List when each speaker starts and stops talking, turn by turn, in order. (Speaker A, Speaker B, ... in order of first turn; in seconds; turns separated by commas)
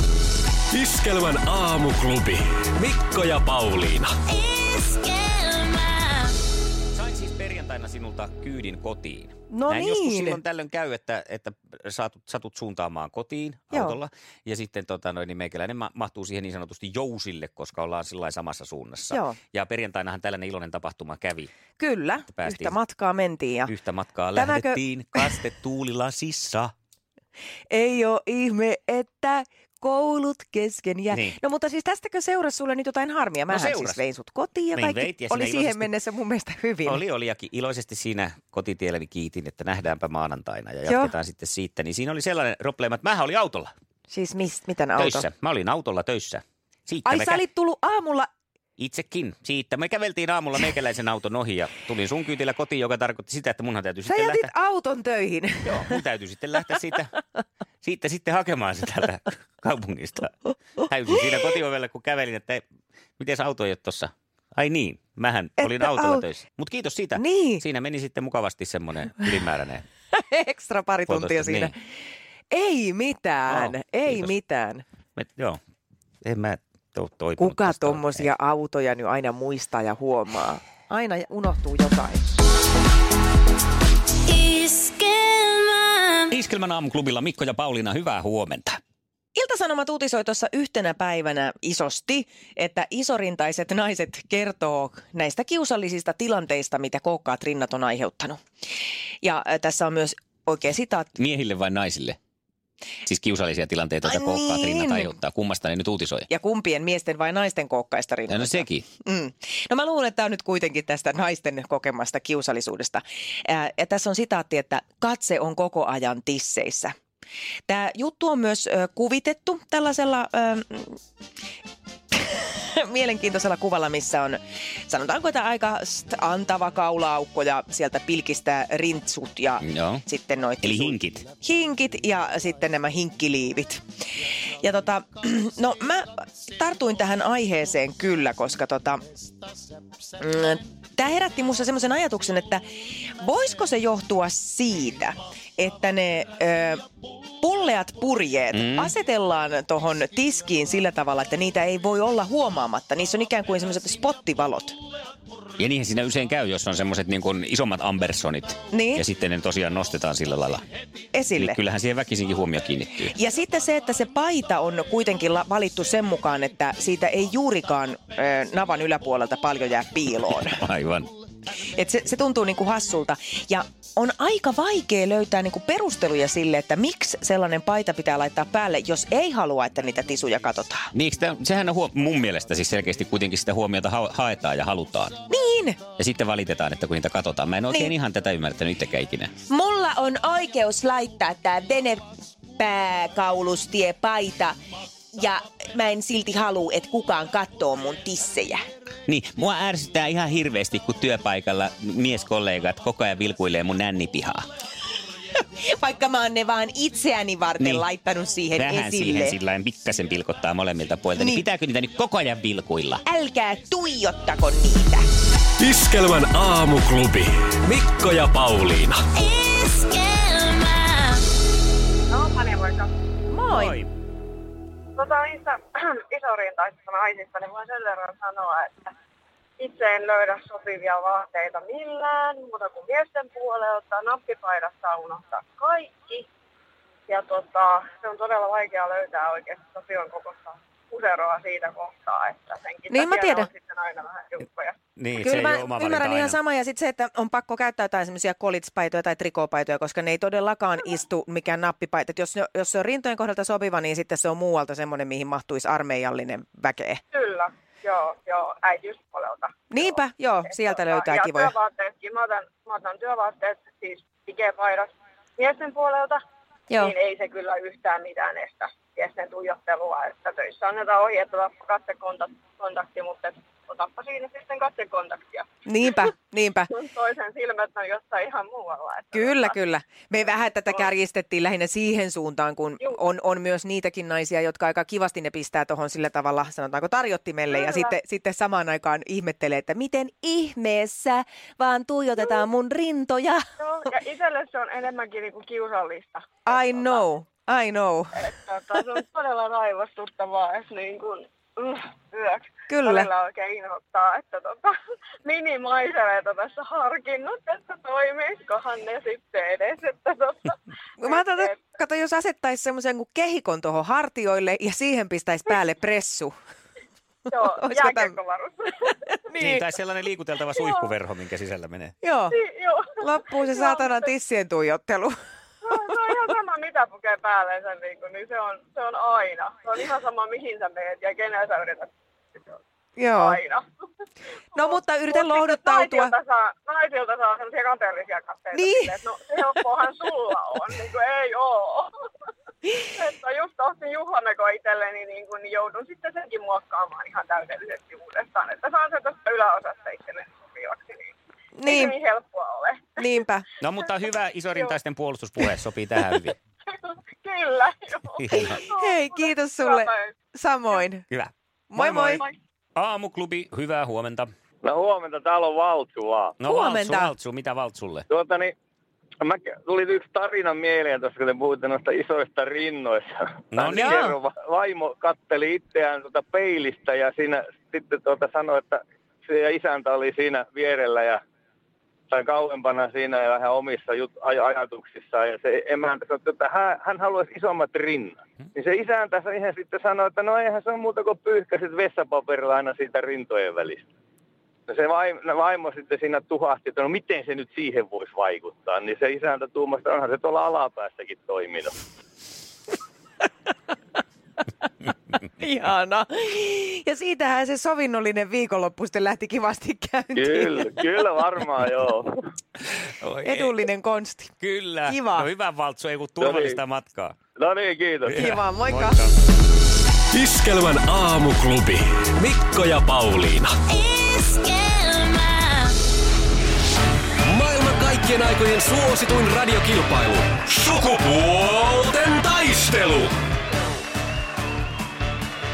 Speaker A: 0.7-4.1, Speaker B: 6.9-21.5, Speaker C: 9.5-10.4, Speaker C: 13.7-14.0, Speaker C: 19.1-19.4, Speaker C: 21.8-23.7, Speaker B: 22.3-22.8, Speaker B: 23.7-26.7, Speaker C: 24.3-25.4, Speaker C: 27.7-37.0, Speaker B: 31.1-31.4, Speaker B: 33.5-34.0, Speaker B: 34.7-35.9, Speaker B: 36.9-43.7, Speaker C: 40.9-41.1, Speaker C: 44.1-45.3, Speaker B: 45.0-47.4, Speaker C: 47.0-48.3, Speaker B: 48.8-54.5, Speaker C: 54.1-56.0, Speaker B: 55.6-57.2, Speaker B: 57.8-62.6, Speaker B: 63.2-69.8, Speaker C: 65.6-66.2, Speaker C: 67.2-67.6, Speaker C: 70.1-71.7, Speaker B: 71.1-71.7, Speaker C: 72.5-74.8, Speaker B: 73.5-74.3, Speaker B: 75.2-75.6, Speaker B: 76.2-78.3, Speaker C: 77.4-82.2, Speaker B: 86.3-88.8, Speaker C: 89.3-98.4, Speaker C: 99.2-101.2, Speaker B: 101.2-102.2, Speaker B: 103.0-106.3, Speaker C: 104.0-105.1, Speaker C: 106.3-116.9, Speaker B: 108.3-108.8, Speaker C: 117.7-121.0, Speaker C: 122.1-133.8, Speaker B: 129.6-130.0, Speaker B: 130.6-131.3, Speaker C: 134.6-139.0, Speaker C: 140.2-146.8, Speaker C: 147.4-154.7, Speaker B: 148.5-148.9, Speaker B: 155.6-160.6, Speaker C: 158.7-159.1, Speaker C: 161.1-161.6, Speaker B: 161.4-163.1, Speaker C: 163.1-170.6, Speaker B: 170.6-171.1, Speaker C: 171.7-180.9, Speaker B: 180.9-185.2, Speaker C: 185.3-185.8, Speaker B: 186.0-189.3, Speaker C: 189.5-192.0, Speaker C: 192.6-194.5, Speaker C: 195.1-198.6, Speaker B: 199.1-204.4, Speaker C: 205.3-209.4, Speaker B: 207.6-207.8, Speaker B: 208.6-213.0, Speaker C: 211.1-211.4, Speaker C: 213.0-215.0, Speaker A: 215.6-219.0, Speaker D: 222.1-222.9, Speaker C: 223.3-223.8, Speaker B: 223.5-223.9, Speaker D: 224.9-228.9, Speaker D: 229.6-236.3, Speaker D: 237.1-244.8, Speaker C: 242.9-243.5, Speaker B: 245.0-246.4, Speaker C: 245.2-257.0, Speaker D: 257.1-266.2, Speaker C: 259.7-261.5, Speaker D: 266.7-275.4, Speaker C: 275.6-276.7, Speaker D: 276.7-279.5, Speaker C: 279.1-293.4, Speaker D: 287.5-287.9, Speaker D: 293.6-297.0, Speaker C: 296.4-298.2, Speaker D: 298.1-311.6, Speaker C: 302.7-303.1, Speaker C: 311.0-316.3, Speaker D: 317.3-318.9, Speaker C: 317.3-318.2, Speaker C: 319.2-319.6, Speaker B: 319.4-321.9, Speaker D: 320.5-320.9, Speaker C: 322.0-322.4, Speaker D: 322.3-324.1, Speaker C: 323.0-325.1, Speaker D: 325.6-332.6, Speaker C: 333.0-333.4, Speaker D: 333.1-333.6, Speaker C: 334.5-336.1, Speaker D: 334.6-341.9, Speaker C: 338.5-339.0, Speaker D: 342.8-351.1, Speaker C: 351.6-352.0, Speaker D: 351.6-353.0, Speaker C: 353.0-353.4, Speaker B: 353.6-356.4, Speaker D: 356.8-360.1, Speaker B: 358.2-358.6, Speaker C: 358.5-361.0, Speaker B: 361.1-362.2, Speaker C: 361.7-362.2, Speaker D: 362.0-362.3, Speaker B: 362.8-364.3, Speaker E: 364.6-366.4, Speaker B: 366.4-368.1, Speaker C: 366.4-367.1, Speaker E: 368.1-368.5, Speaker E: 369.2-381.2, Speaker B: 373.5-374.0, Speaker C: 373.7-374.1, Speaker E: 382.1-393.8, Speaker E: 394.7-401.8, Speaker C: 405.4-410.9, Speaker E: 410.2-412.1, Speaker B: 413.0-413.5, Speaker C: 413.2-415.3, Speaker B: 414.4-417.1, Speaker E: 416.2-416.6, Speaker E: 417.4-418.4, Speaker B: 418.1-419.1, Speaker C: 418.1-419.0, Speaker A: 420.1-423.5, Speaker A: 427.2-433.1